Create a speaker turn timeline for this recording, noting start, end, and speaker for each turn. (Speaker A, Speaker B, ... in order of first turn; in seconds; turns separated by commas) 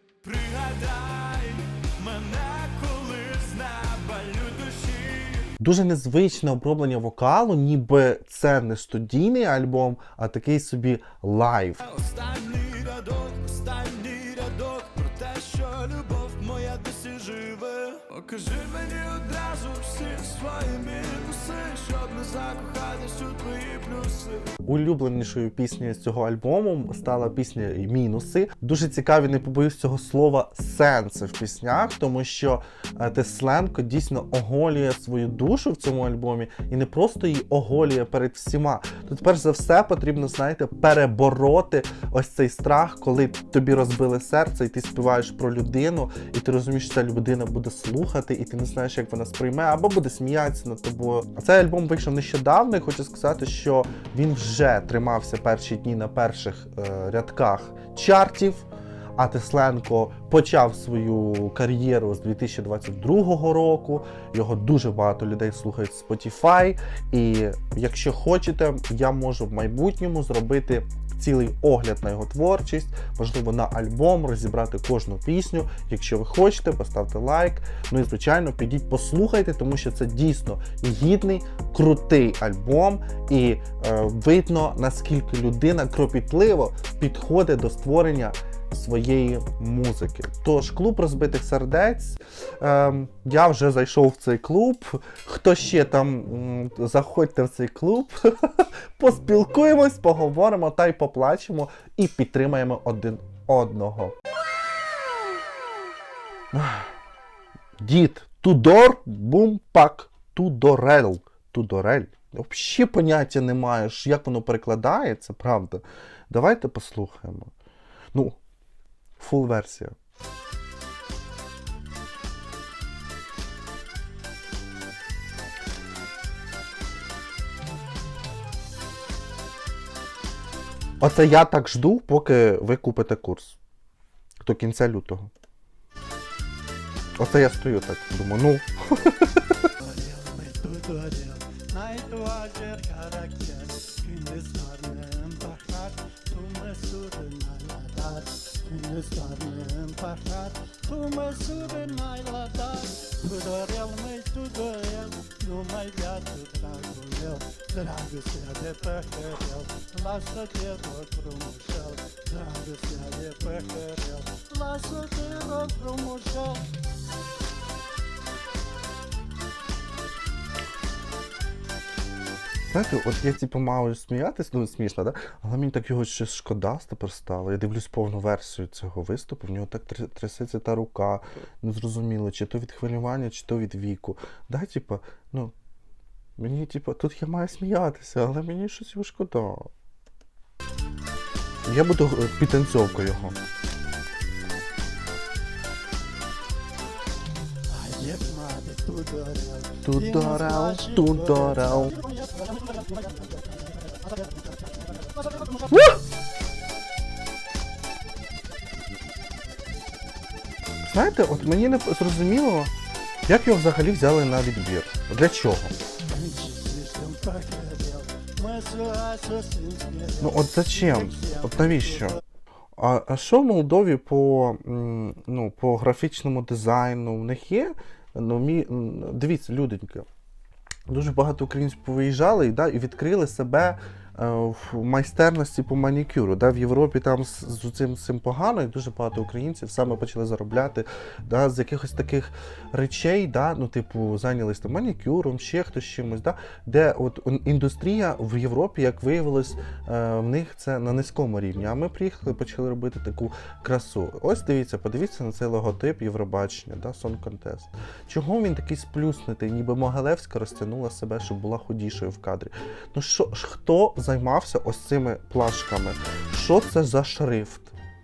Speaker A: 0.2-5.5, Speaker B: 5.6-11.8, Speaker A: 11.8-24.5, Speaker B: 24.6-104.2, Speaker B: 106.5-106.9, Speaker B: 107.8-117.5, Speaker B: 119.2-119.9, Speaker B: 131.0-133.6, Speaker B: 134.4-135.3, Speaker B: 137.2-139.6, Speaker C: 139.8-166.6, Speaker B: 172.7-185.5, Speaker B: 186.4-189.7, Speaker B: 191.7-193.4, Speaker C: 197.7-205.7, Speaker B: 199.8-201.9, Speaker B: 205.7-206.0, Speaker B: 210.9-212.7, Speaker B: 213.3-215.7, Speaker C: 216.0-222.2, Speaker B: 220.2-222.2, Speaker B: 222.8-230.1, Speaker B: 230.9-267.7